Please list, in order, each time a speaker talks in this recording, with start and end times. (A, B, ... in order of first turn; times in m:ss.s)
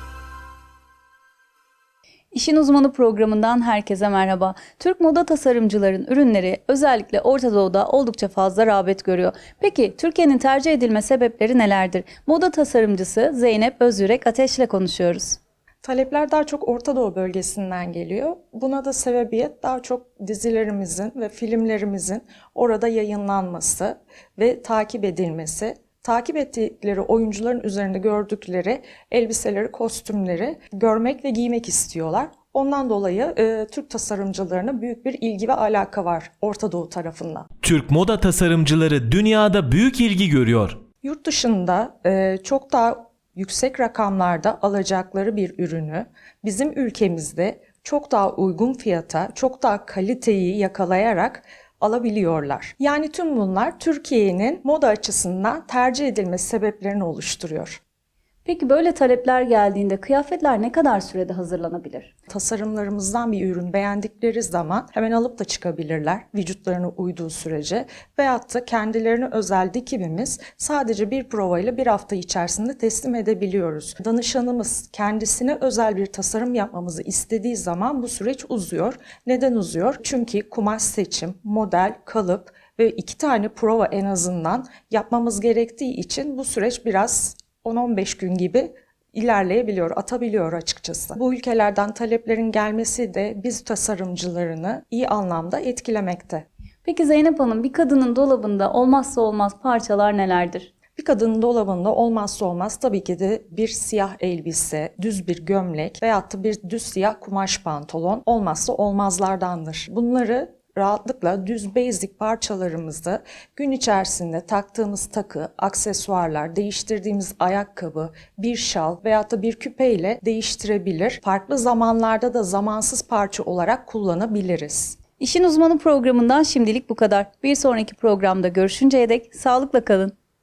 0:02.3-0:15.4 A
0:15.8-0:37.5 B
0:37.6-0:40.8 C
0:41.0-0:57.8 B
0:58.4-1:02.1 A
1:02.3-1:36.4 B
1:36.8-1:40.7 A
1:41.0-2:05.0 B
2:05.2-2:10.1 A